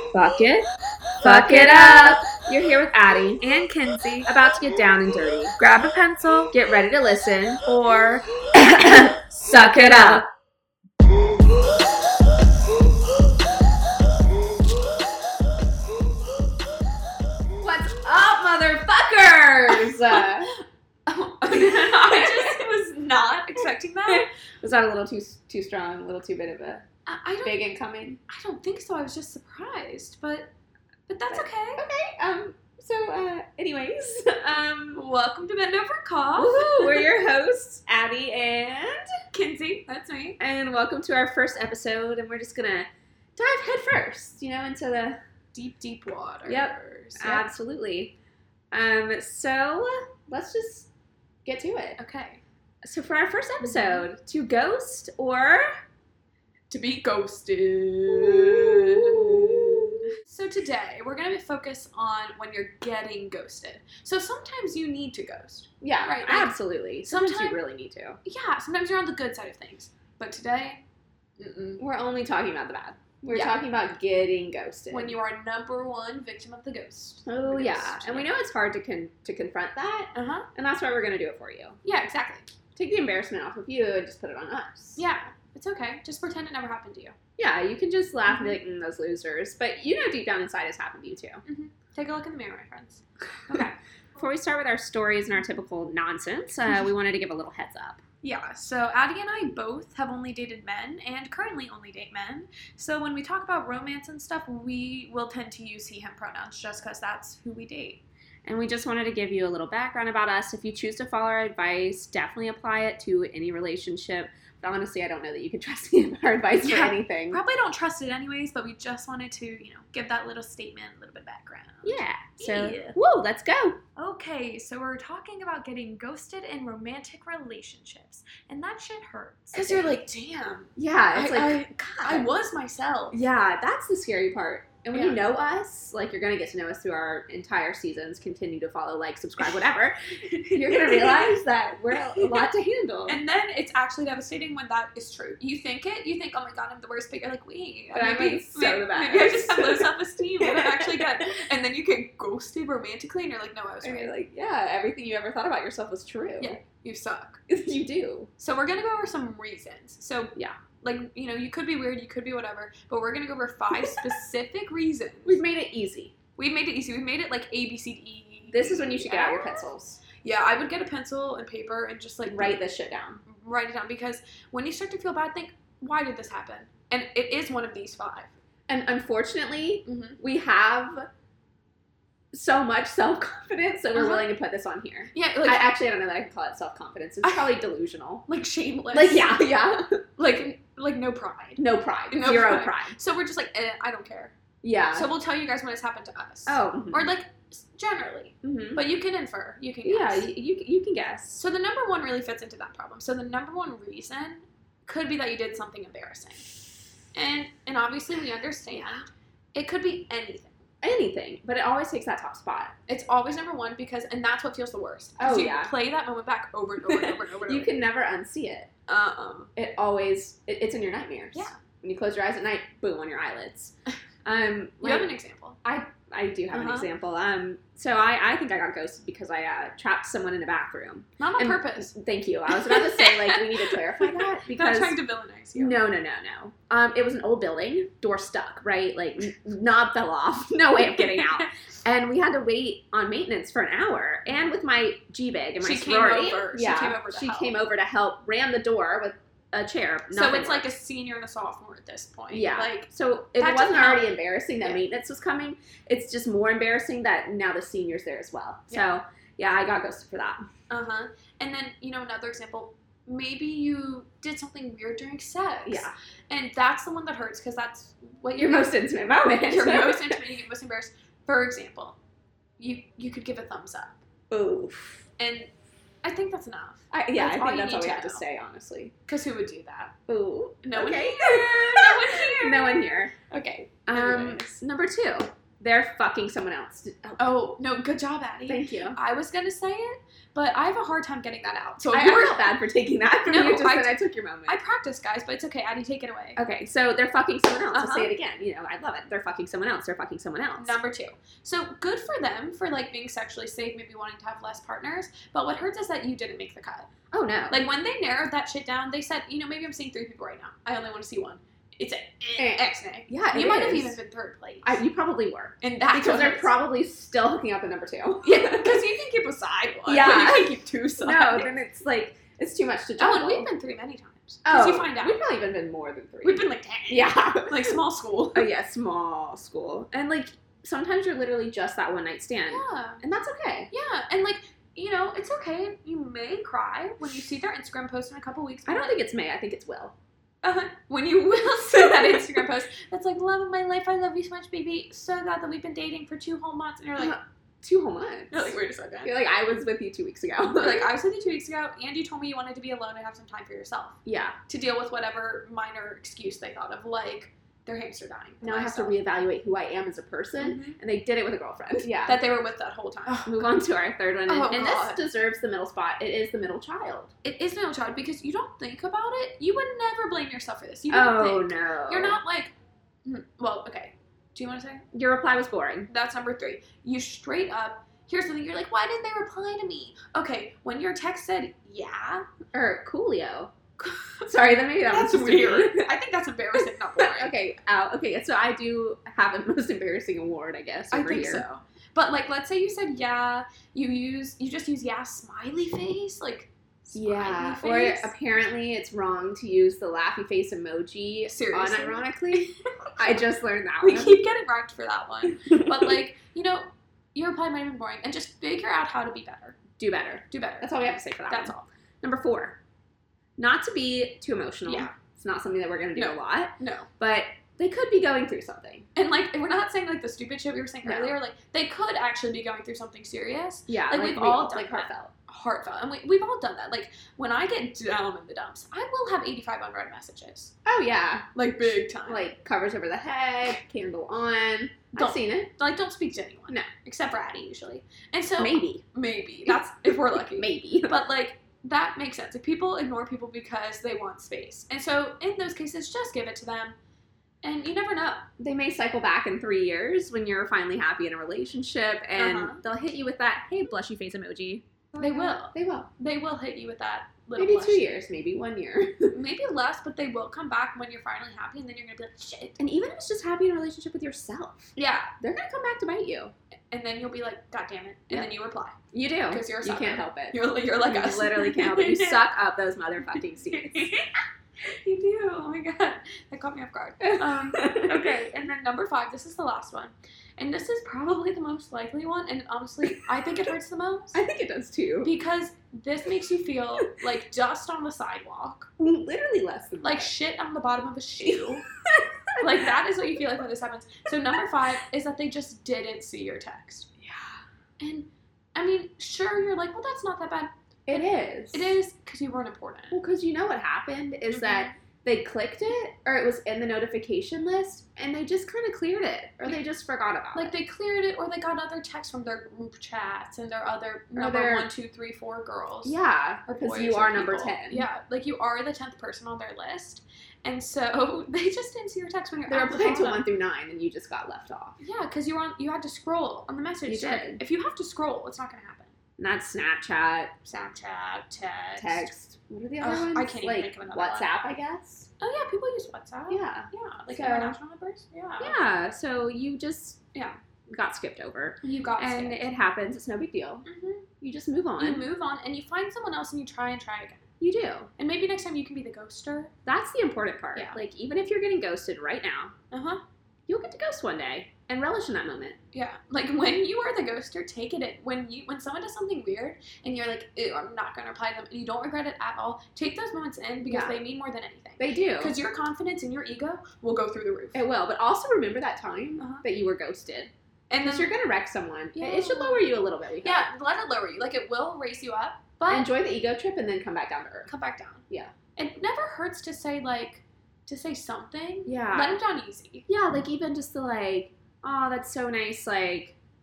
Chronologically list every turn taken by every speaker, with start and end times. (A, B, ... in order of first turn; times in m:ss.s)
0:00.1-0:00.7 A
0:01.2-0:02.2 B
0:01.2-0:03.4 A
0:03.4-0:04.3 B
0:04.3-0:05.6 A
0:05.6-0:06.5 B
0:06.5-0:07.6 A
0:07.6-0:08.2 B
0:08.5-0:10.2 A
0:09.6-0:10.2 B
0:17.6-0:20.5 A
0:21.0-0:24.2 B
0:21.4-0:22.6 A
0:24.1-0:26.8 A
0:27.0-0:27.6 B
0:27.4-0:28.2 A
0:28.3-0:30.5 B
0:31.1-0:31.8 B
0:31.3-0:35.0 A
0:34.9-0:37.2 B
0:36.4-0:39.1 A
0:39.3-0:40.4 B
0:40.4-0:45.2 A
0:45.5-0:47.5 B
0:46.5-0:48.1 A
0:48.7-0:50.9 A
0:51.4-0:52.0 A
0:52.0-0:52.4 B
0:52.8-0:55.6 A
0:53.6-0:54.0 B
0:56.7-1:07.6 B
0:58.2-0:59.6 A
1:05.8-1:08.2 A
1:08.2-1:10.8 B
1:11.4-1:11.8 B
1:11.8-1:15.2 A
1:13.3-1:13.6 B
1:14.9-1:18.3 B
1:17.2-1:21.8 A
1:20.1-1:20.5 B
1:21.8-1:22.5 B
1:22.8-1:25.0 A
1:25.0-1:27.2 B
1:27.4-1:31.4 A
1:28.3-1:28.6 B
1:31.4-1:33.7 B
1:34.2-1:38.0 A
1:38.2-1:48.0 B
1:48.4-1:57.4 A
1:56.6-2:03.0 B
2:01.8-2:03.8 A
2:04.0-2:13.2 B
2:09.5-2:10.0 A
2:10.8-2:12.3 A
2:13.1-2:20.0 A
2:14.9-2:15.2 B
2:20.3-2:21.4 B
2:20.5-2:23.2 A
2:21.9-2:22.5 B
2:23.1-2:34.2 B
2:27.9-2:31.2 A
2:33.8-2:36.6 A
2:36.4-2:37.4 B
2:37.5-2:38.3 A
2:38.4-2:45.4 B
2:45.2-2:46.1 A
2:46.4-2:52.6 B
2:48.5-2:50.0 A
2:52.3-2:53.2 A
2:53.2-2:58.3 B
2:58.7-3:01.1 A
2:59.8-3:00.2 B
3:02.3-3:08.2 A
3:03.9-3:04.3 B
3:05.1-3:05.7 B
3:07.2-3:07.6 B
3:08.3-3:09.4 B
3:08.9-3:10.0 A
3:10.2-3:14.3 B
3:11.6-3:12.9 A
3:14.6-3:15.1 A
3:14.9-3:20.3 B
3:16.5-3:17.1 A
3:18.4-3:18.8 A
3:19.8-3:21.4 A
3:21.4-3:26.5 B
3:27.1-3:30.5 B
3:30.8-3:32.7 A
3:32.9-3:37.7 B
3:35.2-3:35.7 A
3:36.9-3:38.7 A
3:38.9-3:39.5 B
3:39.6-3:43.7 A
3:44.2-3:45.1 A
3:44.8-3:45.6 B
3:45.6-3:55.0 A
3:46.5-3:46.9 B
3:51.2-3:51.9 B
3:52.5-3:55.9 B
3:55.5-4:10.7 A
4:01.0-4:01.4 B
4:05.6-4:07.6 B
4:10.1-4:14.8 B
4:12.3-4:20.4 A
4:20.7-4:28.7 B
4:25.6-4:25.9 A
4:28.4-4:30.2 A
4:29.4-4:32.0 B
4:32.6-4:34.0 B
4:34.3-4:35.0 A
4:35.2-4:35.5 B
4:36.0-4:38.2 B
4:36.9-4:38.9 A
4:39.1-4:39.9 B
4:40.1-4:43.1 A
4:40.6-4:44.5 B
4:43.9-4:47.4 A
4:47.2-4:52.6 B
4:48.4-4:49.0 A
4:51.9-4:54.6 A
4:53.2-4:56.4 B
4:56.4-5:00.8 A
4:57.7-4:58.1 B
5:00.6-5:06.9 B
5:07.1-5:07.6 A
5:07.5-5:14.8 B
5:12.4-5:14.0 A
5:14.6-5:18.8 A
5:15.6-5:16.6 B
5:18.2-5:21.5 B
5:19.9-5:23.5 A
5:23.0-5:25.2 B
5:24.4-5:27.8 A
5:26.2-5:28.5 B
5:28.3-5:33.7 A
5:32.5-5:33.0 B
5:33.7-5:39.0 B
5:38.6-5:39.9 A
5:40.4-5:47.2 B
5:41.8-5:42.2 A
5:47.0-5:50.9 A
5:48.3-5:49.1 B
5:50.5-5:59.0 B
5:54.0-5:54.4 A
5:58.4-6:02.2 A
6:00.4-6:00.8 B
6:01.8-6:03.6 B
6:03.2-6:07.1 A
6:04.3-6:05.0 B
6:07.2-6:12.5 B
6:10.9-6:12.2 A
6:13.0-6:14.8 B
6:14.9-6:15.9 A
6:15.9-6:22.2 B
6:22.5-6:23.5 A
6:23.8-6:27.3 B
6:24.3-6:25.9 A
6:27.0-6:31.4 A
6:30.9-6:38.1 B
6:36.9-6:44.2 A
6:41.2-6:42.0 B
6:43.8-6:49.6 B
6:49.8-6:52.6 A
6:50.3-6:51.6 B
6:53.4-6:58.9 A
6:54.6-6:54.9 B
6:55.9-6:56.9 B
6:58.9-7:10.5 B
7:00.8-7:01.2 A
7:03.7-7:05.1 A
7:10.6-7:11.2 A
7:11.3-7:12.3 B
7:12.1-7:15.5 A
7:14.9-7:26.8 B
7:18.4-7:18.8 A
7:19.5-7:21.0 A
7:27.4-7:28.3 B
7:28.4-7:35.9 A
7:32.2-7:32.6 B
7:35.0-7:38.0 B
7:37.4-7:39.2 A
7:39.1-7:42.6 B
7:42.6-7:46.3 A
7:44.8-7:45.1 B
7:46.7-7:48.8 B
7:48.9-7:53.9 A
7:49.3-7:52.3 B
7:53.1-7:54.1 B
7:54.7-8:04.2 B
7:57.0-7:58.2 A
8:04.1-8:05.1 A
8:05.0-8:08.7 B
8:08.8-8:10.1 A
8:09.8-8:11.6 B
8:11.2-8:12.1 A
8:12.4-8:16.9 B
8:17.0-8:17.3 A
8:17.8-8:23.0 B
8:20.9-8:21.8 A
8:22.9-8:30.5 A
8:24.3-8:24.7 B
8:30.3-8:43.3 B
8:34.1-8:34.7 A
8:35.8-8:37.9 A
8:42.5-8:44.8 A
8:44.8-8:48.9 B
8:46.9-8:47.4 A
8:49.2-8:50.3 A
8:50.4-8:52.1 B
8:51.8-8:55.1 A
8:52.8-8:54.4 B
8:55.2-8:58.6 B
8:56.3-8:57.6 A
8:58.4-9:00.0 A
9:00.7-9:03.6 A
9:01.6-9:02.5 B
9:03.6-9:04.1 B
9:04.2-9:05.0 A
9:04.8-9:07.3 B
9:07.4-9:07.9 A
9:08.0-9:09.5 B
9:09.6-9:12.5 A
9:12.7-9:13.0 B
9:13.5-9:15.6 A
9:15.7-9:27.6 B
9:23.7-9:24.0 A
9:24.8-9:25.4 A
9:27.5-9:33.5 A
9:29.2-9:29.4 B
9:30.7-9:31.1 B
9:31.9-9:35.9 B
9:35.7-9:37.5 A
9:37.4-9:38.0 B
9:38.6-9:42.8 B
9:41.6-9:42.2 A
9:42.9-9:46.2 A